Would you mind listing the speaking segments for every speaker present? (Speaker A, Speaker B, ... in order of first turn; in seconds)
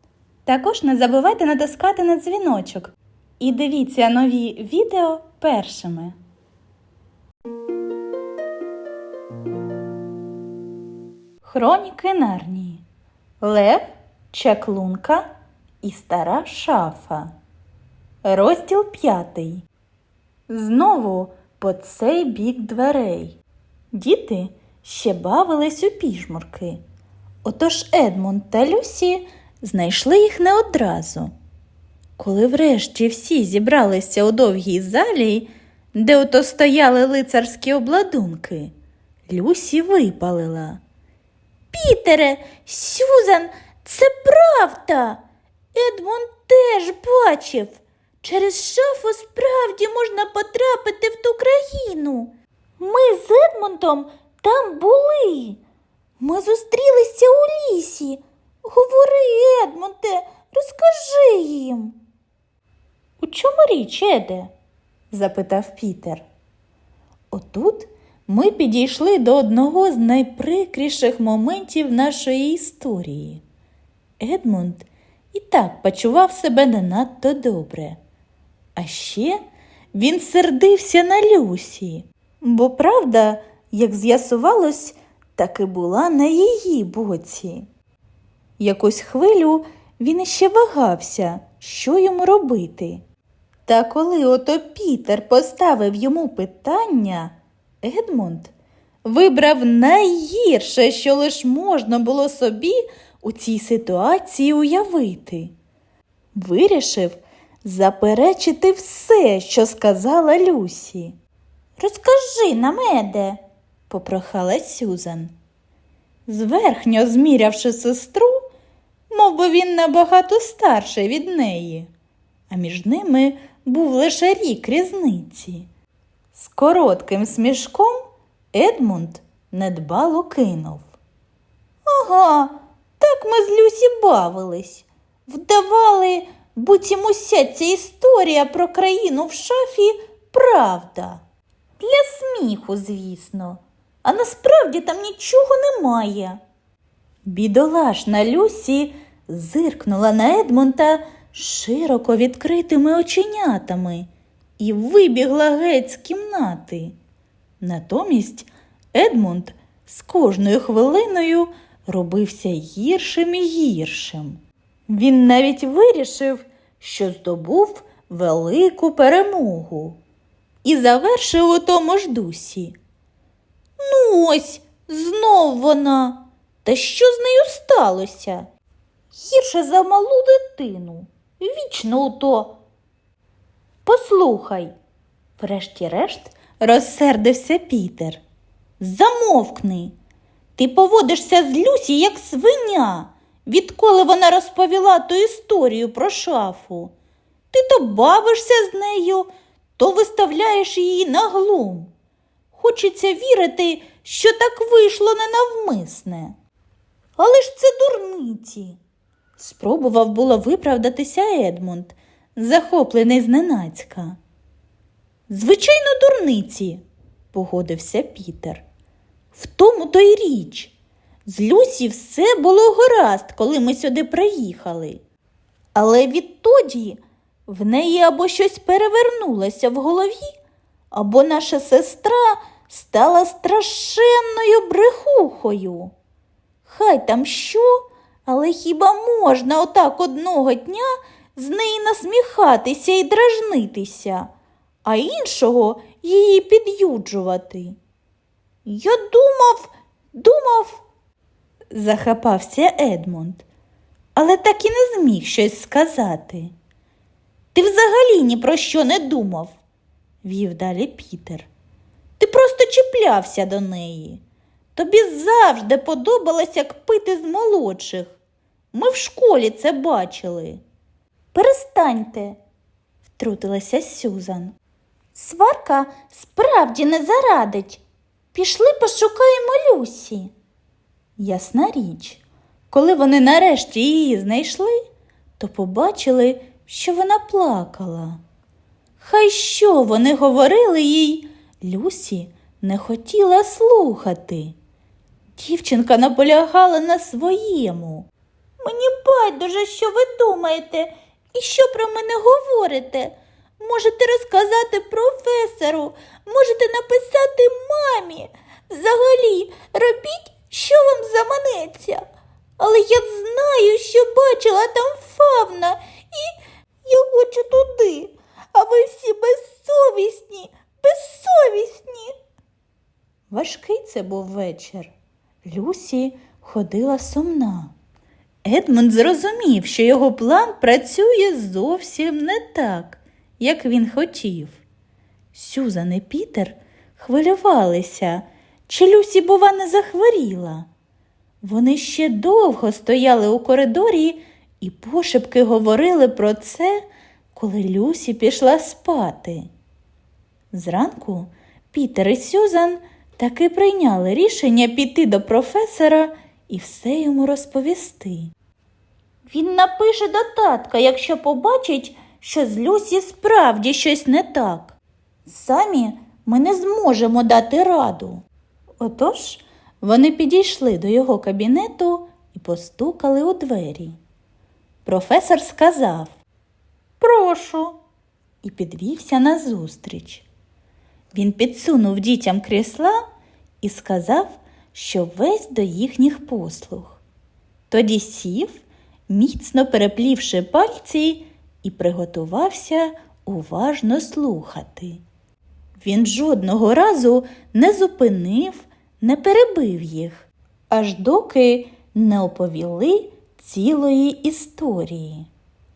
Speaker A: 0.5-6.2, 11.4-12.8, 13.4-15.3, 15.8-17.3, 18.2-19.6, 20.5-23.4, 23.9-26.8, 27.4-31.3, 32.2-38.7, 39.3-40.8, 41.7-45.2, 45.7-55.6, 56.2-62.0, 63.2-64.5, 65.1-66.2, 67.3-73.4, 74.2-78.0, 78.8-79.4, 79.9-87.7, 88.6-93.0, 93.7-98.5, 99.0-105.5, 106.3-111.2, 111.8-115.3, 116.3-118.5, 119.1-121.9, 122.5-125.7, 126.3-130.9, 131.9-141.2, 141.8-146.4, 147.2-154.1, 154.6-157.0, 157.6-170.0, 170.6-172.8, 173.8-178.5, 179.1-182.6, 183.8-184.7, 185.4-188.2, 188.8-189.9, 190.6-196.9, 197.5-201.9, 202.5-206.3, 207.2-208.8, 209.4-214.2, 215.3-216.8, 217.3-218.6, 219.3-220.7, 221.3-225.0, 225.8-230.4, 230.9-235.9, 236.7-244.3, 244.8-247.8, 248.7-250.8, 251.7-253.4, 254.2-256.5, 257.5-259.6, 260.2-261.5, 262.2-264.2, 264.8-268.2, 268.7-270.6, 271.3-272.4, 273.1-274.5, 275.1-277.8, 278.3-280.3, 281.2-284.8, 285.4-288.2, 289.0-294.6, 295.4-298.1, 298.6-312.0, 312.6-316.3, 316.9-322.1, 323.3-327.7, 328.4-334.6, 335.3-340.7, 341.4-349.5, 350.5-358.3, 359.3-368.2, 368.8-374.0, 374.9-376.1, 377.0-377.8, 378.4-380.3, 381.1-383.0, 383.6-387.0, 387.7-395.0, 395.8-405.3